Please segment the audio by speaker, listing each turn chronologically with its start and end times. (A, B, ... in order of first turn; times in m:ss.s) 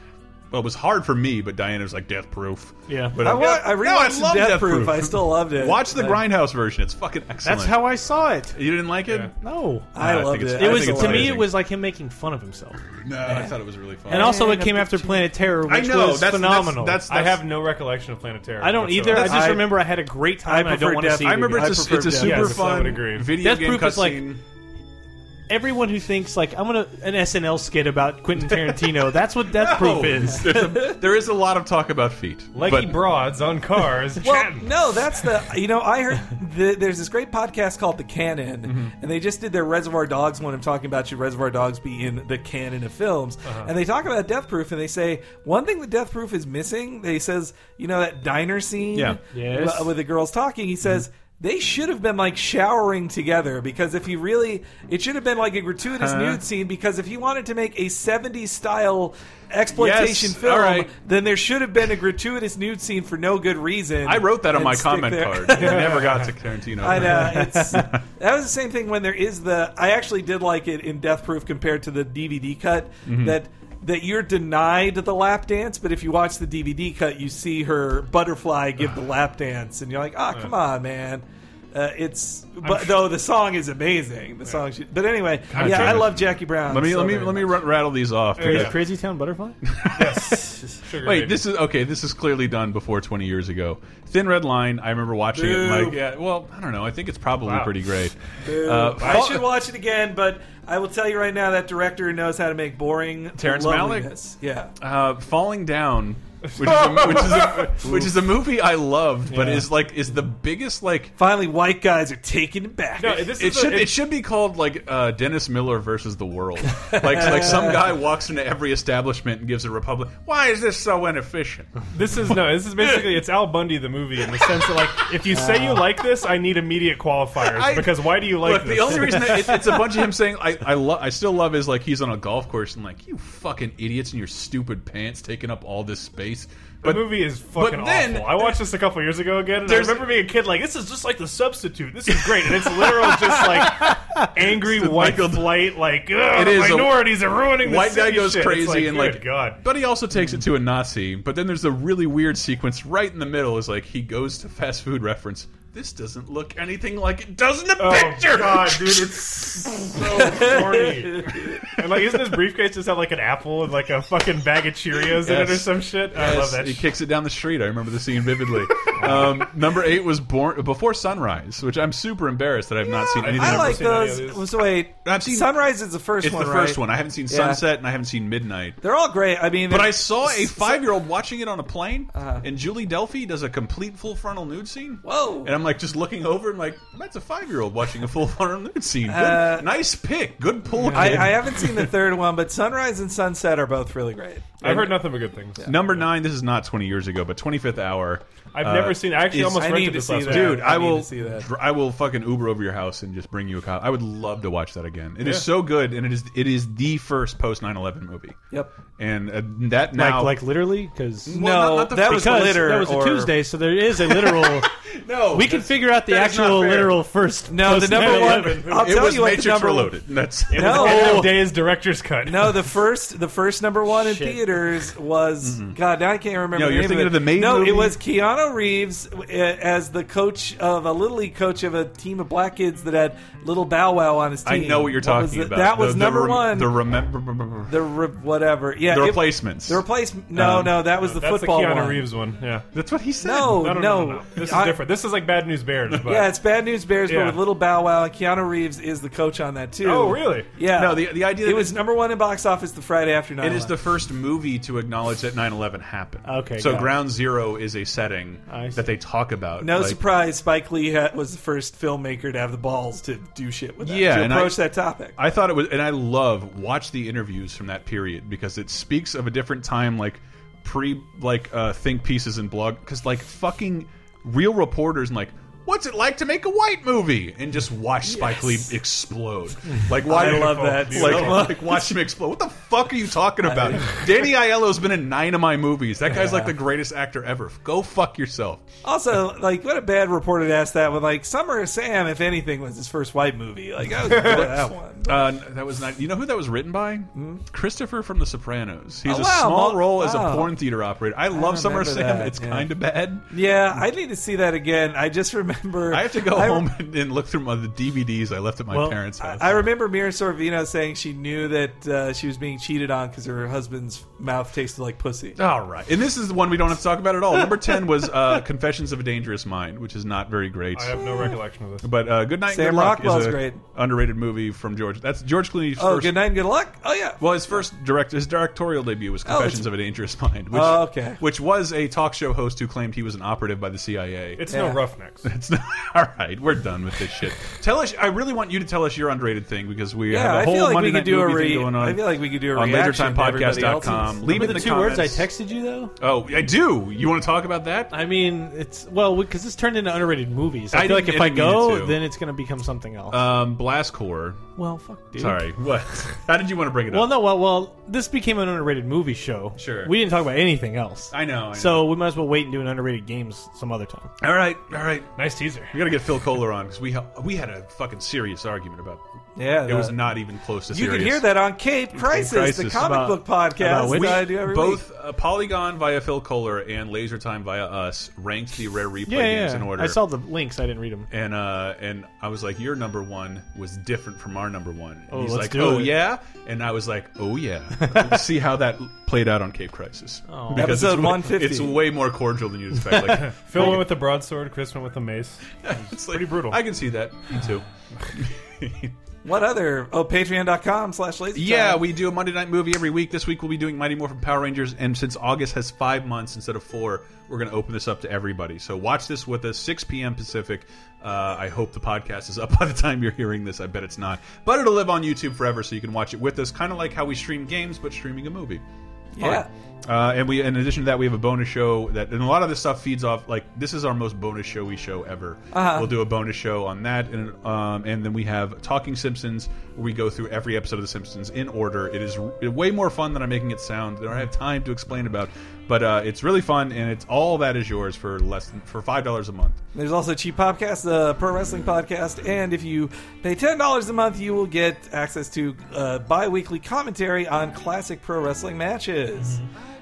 0:00.5-0:08.0 A
0:02.9-0:03.2 B
0:03.2-0:06.2 C
0:07.4-0:08.6 B
0:08.5-0:09.3 A
0:09.1-0:09.3 D
0:09.4-0:09.9 B
0:09.9-0:11.4 C
0:10.0-0:11.5 A
0:10.4-0:12.8 B
0:13.0-0:14.5 A
0:14.1-0:15.3 C
0:14.1-0:17.0 B
0:15.7-0:17.4 A
0:17.1-0:19.5 D
0:18.6-0:22.7 B
0:19.1-0:19.6 A
0:19.2-0:19.8 C
0:20.4-0:22.5 C
0:21.2-0:24.4 A
0:22.2-0:23.3 D
0:23.4-0:24.3 B
0:25.5-0:30.6 B
0:28.5-0:28.8 A
0:29.5-0:33.0 A
0:32.5-0:34.7 D
0:34.2-1:06.2 C
0:38.6-0:38.9 A
0:43.4-0:43.7 D
0:48.9-0:49.2 A
0:49.3-0:49.9 B
0:55.9-0:56.4 A
0:59.7-1:00.9 A
1:04.0-1:08.0 A
1:05.5-1:06.4 D
1:06.8-1:27.6 C
1:07.3-1:07.8 B
1:13.0-1:13.4 A
1:22.6-1:23.1 D
1:25.5-1:26.1 D
1:25.5-1:28.8 A
1:28.4-1:28.8 D
1:28.4-1:29.6 B
1:29.6-1:39.6 A
1:29.9-1:31.4 D
1:35.3-1:36.0 C
1:37.4-1:37.7 D
1:38.4-1:44.7 C
1:43.4-1:44.1 A
1:44.8-1:51.2 A
1:46.4-1:47.7 D
1:47.8-1:48.2 C
1:49.3-1:49.7 D
1:51.2-1:53.3 C
1:53.0-1:54.0 D
1:53.4-2:03.2 A
1:56.9-1:58.0 C
2:01.9-2:09.8 D
2:07.4-2:18.6 A
2:16.8-2:29.6 D
2:19.6-2:20.1 A
2:23.3-2:25.7 A
2:26.3-2:41.8 A
2:37.8-2:46.9 D
2:40.3-2:41.6 C
2:45.0-2:54.1 A
2:53.2-2:54.4 D
2:53.2-2:57.6 C
2:55.0-2:55.5 A
2:56.2-2:58.8 A
2:58.8-3:00.8 C
2:59.7-3:11.9 A
3:02.1-3:02.5 C
3:05.0-3:05.6 C
3:09.1-3:09.7 C
3:10.9-3:14.6 C
3:14.6-3:16.0 D
3:14.6-3:15.0 A
3:15.6-3:19.6 A
3:18.5-3:20.7 D
3:19.6-3:21.5 C
3:20.2-3:28.4 A
3:29.0-3:30.4 A
3:29.9-3:34.7 B
3:31.2-3:32.7 A
3:31.3-3:33.4 C
3:34.1-3:37.0 A
3:35.3-3:38.8 B
3:37.5-3:40.0 C
3:38.0-3:41.2 A
3:38.2-3:38.6 D
3:40.5-3:42.7 D
3:40.5-3:41.5 C
3:41.0-3:41.3 B
3:42.2-3:56.8 C
3:45.4-3:45.8 A
3:46.5-3:48.0 A
3:54.4-3:57.7 A
3:57.7-4:02.1 C
3:58.8-4:00.9 A
4:00.9-4:02.7 D
4:02.7-4:03.7 A
4:03.2-4:04.8 C
4:03.4-4:06.4 D
4:06.0-4:13.8 C
4:07.1-4:07.4 D
4:09.8-4:10.5 D
4:10.6-4:11.8 A
4:13.4-4:20.0 A
4:16.2-4:17.0 B
4:18.5-4:18.8 B
4:19.6-4:25.2 C
4:23.8-4:48.6 A
4:38.2-4:38.6 C
4:39.9-4:41.6 D
4:40.0-4:41.9 C
4:43.4-4:44.1 C
4:46.1-4:46.5 C
4:48.8-4:55.3 C
4:54.0-5:03.8 A
4:57.1-4:57.4 C
4:59.0-5:00.5 C
5:01.3-5:02.7 C
5:03.3-5:06.6 C
5:05.9-5:09.7 A
5:08.7-5:09.0 B
5:09.2-5:15.4 C
5:15.4-5:26.3 A
5:20.7-5:21.9 D
5:22.5-5:23.6 C
5:25.8-5:27.6 C
5:27.2-5:34.5 A
5:29.3-5:29.7 C
5:30.5-5:31.2 C
5:34.4-5:35.3 D
5:34.5-5:34.8 C
5:35.2-5:45.3 A
5:40.1-5:44.3 C
5:44.3-5:46.0 B
5:46.0-5:47.9 A
5:47.9-5:53.3 B
5:50.7-5:52.0 A
5:53.1-5:54.4 A
5:54.6-5:55.5 B
5:55.2-5:57.2 A
5:56.9-6:04.1 B
5:59.6-6:00.0 A
6:01.1-6:01.9 A
6:04.2-6:05.1 A
6:05.2-6:05.8 D
6:05.7-6:09.0 A
6:09.4-6:10.0 C
6:09.6-6:11.3 A
6:10.7-6:14.8 C
6:11.9-6:13.1 A
6:12.7-6:14.3 B
6:13.7-6:20.0 A
6:19.1-6:21.1 B
6:21.1-6:33.9 A
6:25.1-6:25.9 B
6:27.8-6:28.1 B
6:30.3-6:30.8 B
6:30.5-6:31.8 C
6:33.0-6:36.6 D
6:35.6-6:39.0 A
6:39.2-6:41.8 C
6:41.3-6:58.6 A
6:59.1-6:59.5 C
6:59.2-7:19.6 A
7:05.5-7:05.9 C
7:19.7-7:29.4 C